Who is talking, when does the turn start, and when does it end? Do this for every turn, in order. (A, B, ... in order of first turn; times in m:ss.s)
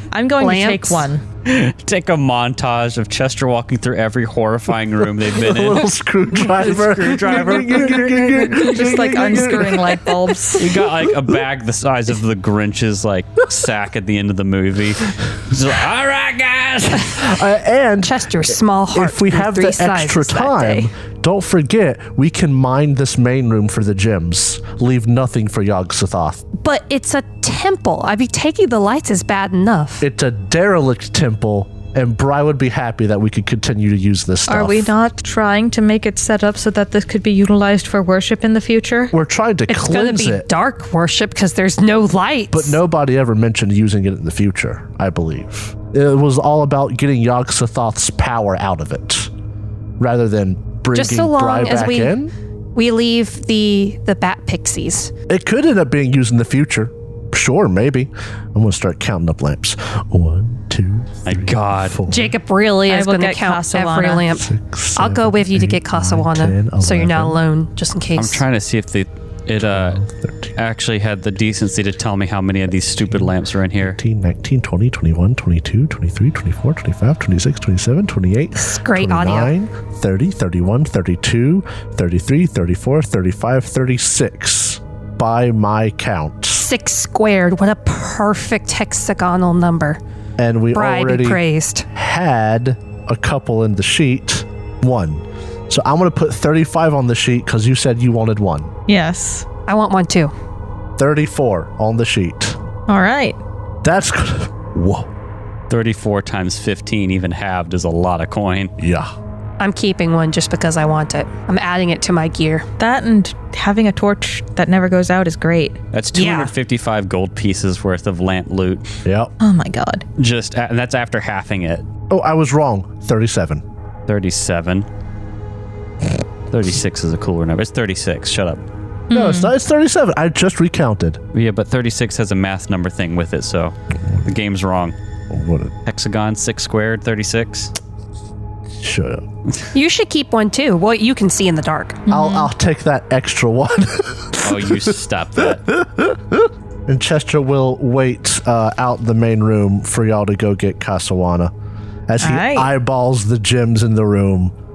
0:00.1-0:01.2 A
0:00.4-0:01.1 B
0:01.4-0:08.6 C
0:05.2-0:10.4 D
0:08.1-0:10.7 A
0:10.6-0:17.4 C
0:17.2-0:26.4 D
0:18.0-0:20.9 B
0:26.6-0:30.0 B
0:30.0-0:34.9 D
0:34.5-0:39.1 A
0:39.1-0:40.5 D
0:39.7-0:42.8 B
0:42.5-0:49.3 D
0:50.0-0:52.3 D
0:50.9-0:52.2 B
0:52.7-0:55.1 B
0:55.3-1:02.4 D
1:01.2-1:02.0 C
1:02.1-1:08.4 B
1:02.9-1:04.2 A
1:04.3-1:07.4 D
1:08.2-1:10.0 C
1:09.6-1:10.5 D
1:10.6-1:14.0 C
1:13.0-1:26.7 D
1:18.6-1:19.5 B
1:26.6-1:30.0 B
1:30.4-1:31.4 D
1:30.7-1:31.8 B
1:31.9-1:38.7 D
1:38.9-1:39.4 A
1:39.7-1:40.3 B
1:41.0-1:42.6 D
1:42.9-1:43.4 A
1:43.8-1:45.1 D
1:45.7-1:48.7 C
1:48.8-1:49.1 D
1:49.6-1:52.7 B
1:52.8-1:55.8 A
1:55.9-1:58.8 C
1:56.1-1:56.5 B
1:59.0-1:59.3 D
1:59.4-2:00.0 A
2:00.2-2:01.8 C
2:02.1-2:03.6 D
2:04.1-2:04.8 C
2:06.5-2:08.6 C
2:09.1-2:09.5 A
2:09.1-2:11.2 D
2:11.3-2:15.0 C
2:15.3-2:15.7 D
2:15.8-2:17.7 C
2:18.8-2:19.2 D
2:19.7-2:22.0 B
2:22.1-2:31.5 D
2:22.1-2:22.5 A
2:24.4-2:25.6 C
2:32.1-2:34.5 D
2:32.2-2:32.7 A